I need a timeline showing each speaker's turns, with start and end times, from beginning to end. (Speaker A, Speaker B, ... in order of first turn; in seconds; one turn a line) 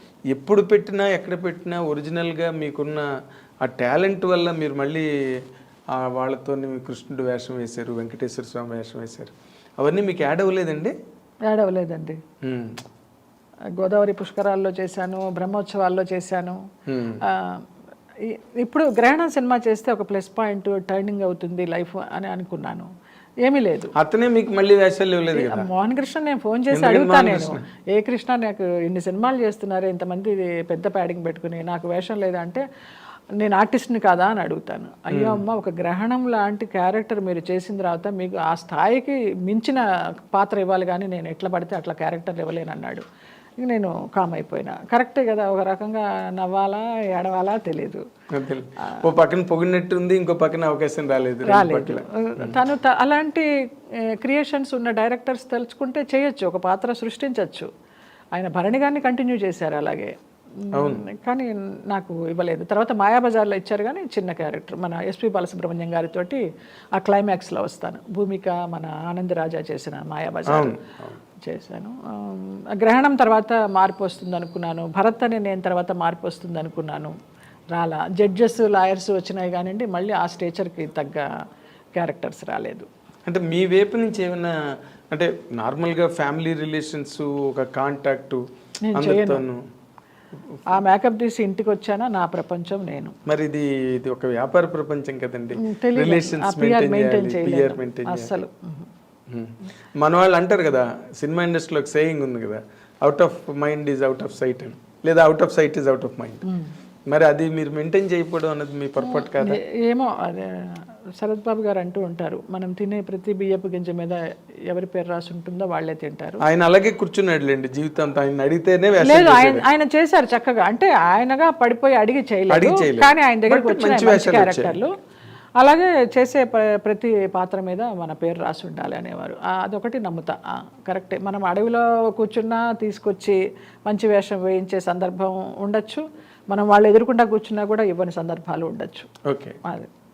Speaker A: 0.3-3.0
Speaker A: 3.6-5.1
Speaker A: 6.0-10.9
Speaker B: 11.5-12.2
Speaker A: 12.4-12.8
Speaker B: 13.8-16.6
Speaker A: 16.9-17.2
Speaker B: 17.2-17.6
Speaker B: 18.2-22.9
Speaker B: 23.4-23.9
Speaker A: 24.0-25.7
Speaker B: 25.3-32.6
Speaker A: 26.7-27.6
Speaker B: 33.4-43.0
Speaker A: 35.1-35.4
Speaker B: 43.6-48.0
Speaker A: 48.3-52.6
Speaker B: 51.5-57.7
Speaker B: 58.3-66.4
Speaker A: 60.7-61.0
Speaker B: 67.0-70.8
Speaker A: 70.5-71.2
Speaker B: 71.4-77.1
Speaker B: 77.7-81.3
Speaker B: 82.0-82.9
Speaker A: 83.3-84.5
Speaker A: 85.1-88.4
Speaker B: 88.9-89.4
Speaker A: 88.9-89.6
Speaker B: 90.7-93.2
Speaker A: 93.3-98.3
Speaker B: 95.6-98.9
Speaker A: 99.3-106.5
Speaker B: 106.5-106.7
Speaker A: 107.1-109.6
Speaker B: 109.0-116.4
Speaker A: 116.4-119.7
Speaker B: 119.0-124.9
Speaker A: 122.5-124.8
Speaker B: 125.6-139.1
Speaker A: 139.3-139.6
Speaker B: 139.6-139.9